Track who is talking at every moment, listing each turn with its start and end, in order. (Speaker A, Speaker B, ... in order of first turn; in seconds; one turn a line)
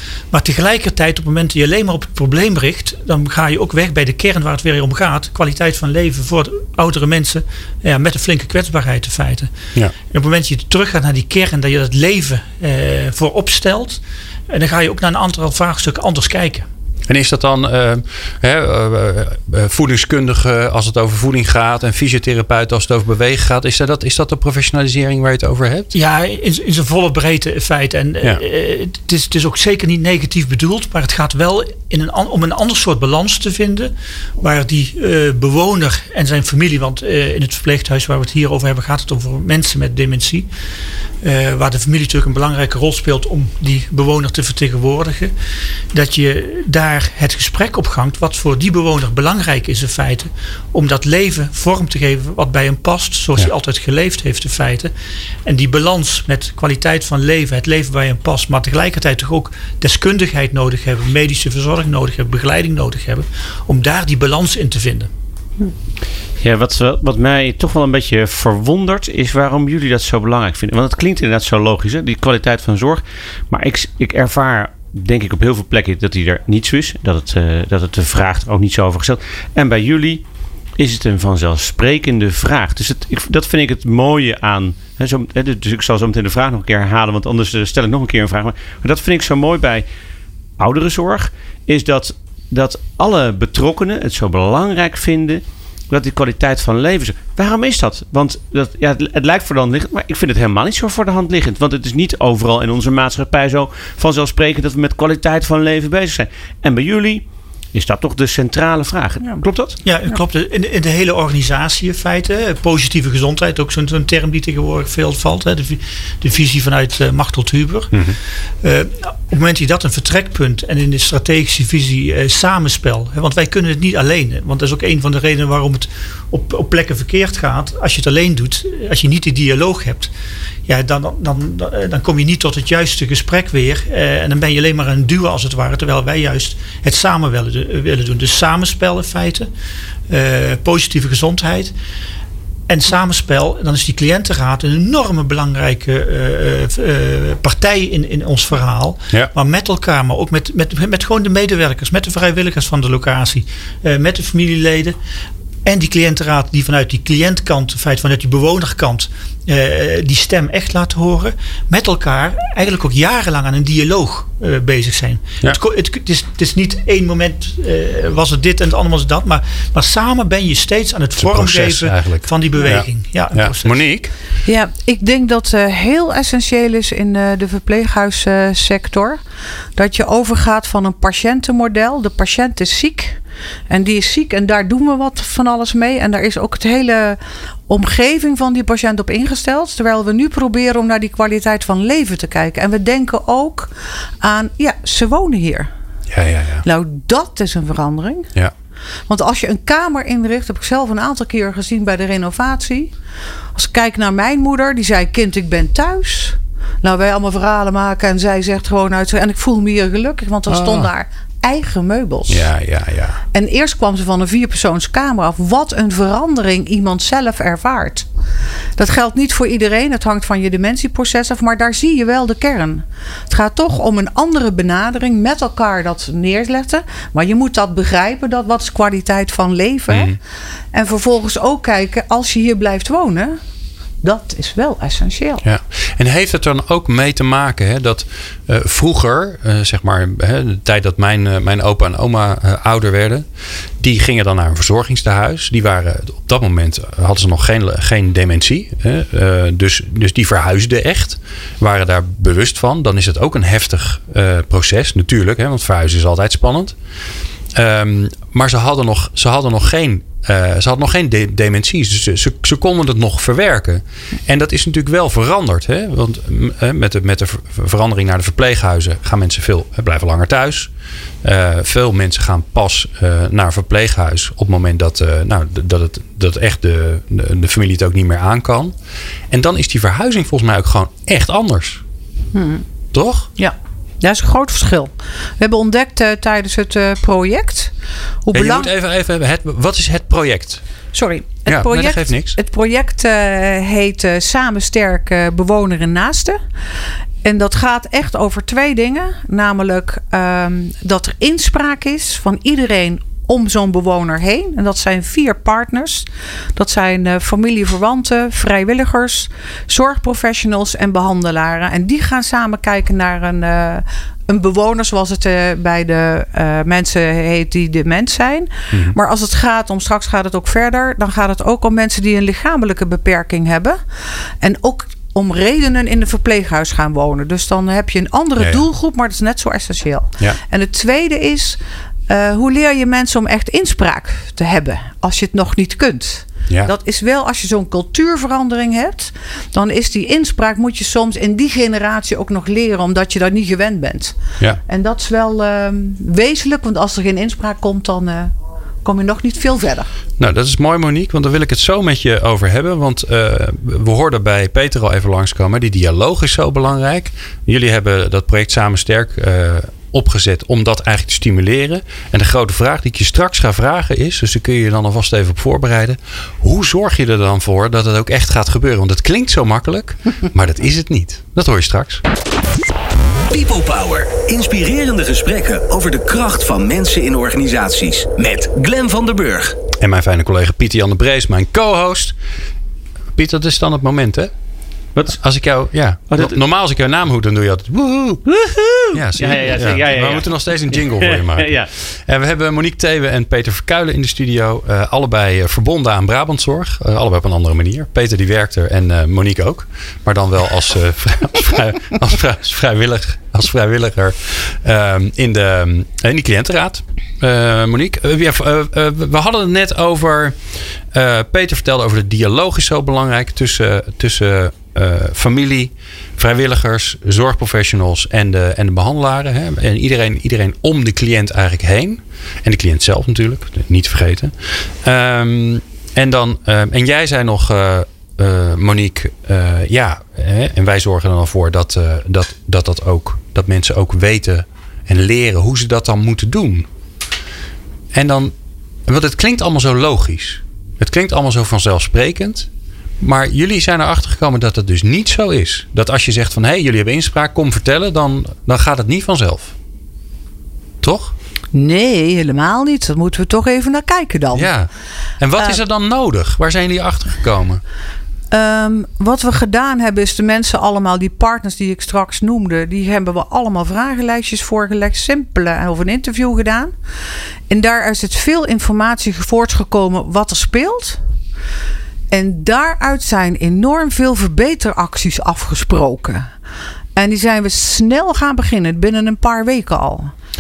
Speaker A: 0.3-9.5
Speaker A: 10.1-16.7
Speaker B: 17.1-25.9
Speaker A: 25.9-40.5
Speaker A: 41.2-45.3
Speaker A: 45.9-54.9
Speaker A: 55.5-65.1
Speaker C: 66.4-80.2
Speaker C: 80.8-89.8
Speaker C: 90.6-109.8
Speaker A: 109.8-130.1
Speaker A: 130.7-139.5
Speaker A: 140.1-141.7
Speaker A: 142.7-155.0
Speaker A: 155.7-173.8
Speaker B: 171.2-174.1
Speaker D: 174.4-179.2
Speaker D: 179.8-195.7
Speaker B: 196.1-196.7
Speaker D: 196.6-198.3
Speaker D: 199.1-202.9
Speaker D: 203.6-212.5
Speaker B: 210.5-210.9
Speaker B: 212.3-213.2
Speaker D: 213.3-218.1
Speaker D: 218.8-230.2
Speaker B: 229.9-230.2
Speaker D: 230.7-233.4
Speaker D: 234.0-235.4
Speaker B: 235.4-243.3
Speaker B: 243.8-256.8
Speaker B: 257.5-270.7
Speaker B: 271.2-278.7
Speaker B: 279.3-281.8
Speaker D: 282.3-282.6
Speaker B: 282.9-283.3
Speaker D: 283.4-287.7
Speaker D: 288.2-288.7
Speaker B: 288.3-290.6
Speaker D: 290.9-296.4
Speaker B: 291.5-292.4
Speaker D: 297.2-323.8
Speaker B: 318.7-319.0
Speaker D: 324.4-348.3
Speaker B: 328.4-328.6
Speaker D: 348.8-349.9
Speaker B: 350.2-372.0
Speaker E: 373.3-379.6
Speaker B: 379.8-382.1
Speaker B: 383.1-384.3
Speaker B: 385.1-388.3
Speaker C: 386.1-386.4
Speaker C: 388.3-391.7
Speaker B: 388.9-410.4
Speaker B: 410.9-436.7
Speaker B: 437.9-438.3
Speaker B: 438.9-442.5
Speaker B: 443.0-449.5
Speaker B: 450.8-451.1
Speaker D: 451.5-454.5
Speaker B: 454.3-454.7
Speaker B: 455.2-457.6
Speaker D: 458.3-466.7
Speaker D: 467.5-471.0
Speaker D: 472.1-476.3
Speaker D: 477.0-480.1